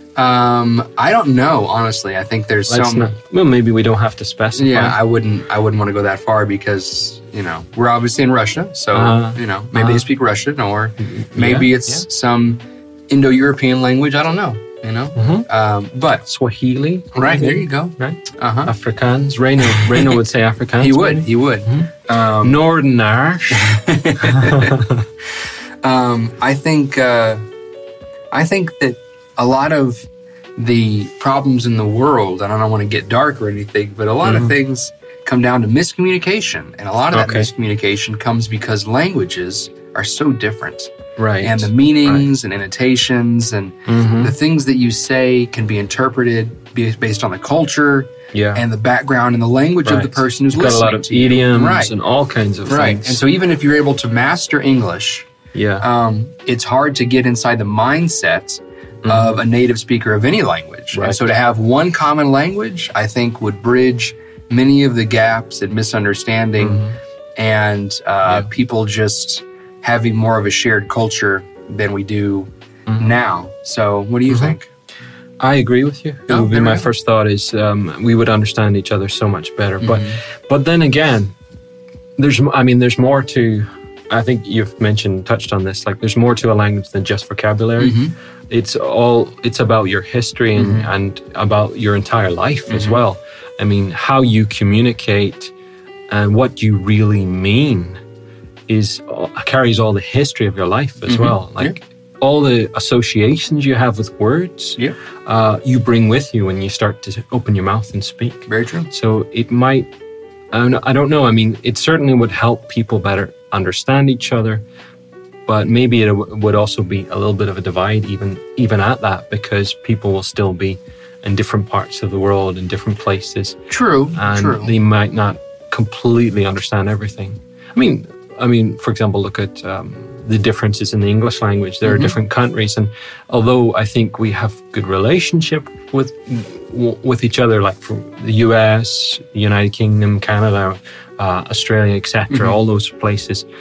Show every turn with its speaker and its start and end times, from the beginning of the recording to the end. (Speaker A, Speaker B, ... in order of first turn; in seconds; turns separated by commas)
Speaker A: 0.1-3.1, Speaker B: 2.7-5.0, Speaker A: 4.5-16.3, Speaker B: 8.9-10.1, Speaker B: 11.0-12.0, Speaker B: 15.2-15.5, Speaker B: 16.2-21.9, Speaker A: 17.1-18.7, Speaker A: 19.6-20.1, Speaker A: 20.8-22.6, Speaker B: 22.4-25.1, Speaker A: 23.5-24.8, Speaker A: 25.8-27.4, Speaker A: 28.3-51.9, Speaker B: 34.2-34.5, Speaker B: 37.1-37.5, Speaker B: 41.2-42.2, Speaker B: 43.9-44.3, Speaker B: 48.3-48.6, Speaker B: 49.8-53.2, Speaker A: 52.6-66.8, Speaker B: 55.5-55.8, Speaker B: 59.0-59.4, Speaker B: 60.9-61.2, Speaker B: 66.6-66.9, Speaker A: 67.4-74.7, Speaker B: 74.3-74.5, Speaker B: 75.4-81.3, Speaker A: 76.3-76.9, Speaker A: 79.8-80.2, Speaker B: 82.2-88.0, Speaker A: 87.8-88.1, Speaker B: 88.5-95.5, Speaker A: 90.5-90.9, Speaker A: 92.7-93.0, Speaker B: 96.1-98.0, Speaker B: 98.7-109.9, Speaker A: 101.1-101.8, Speaker A: 108.5-108.9, Speaker B: 110.5-114.6, Speaker B: 115.5-123.6, Speaker A: 123.7-124.7, Speaker B: 124.1-143.4, Speaker A: 131.8-132.1, Speaker A: 142.3-142.6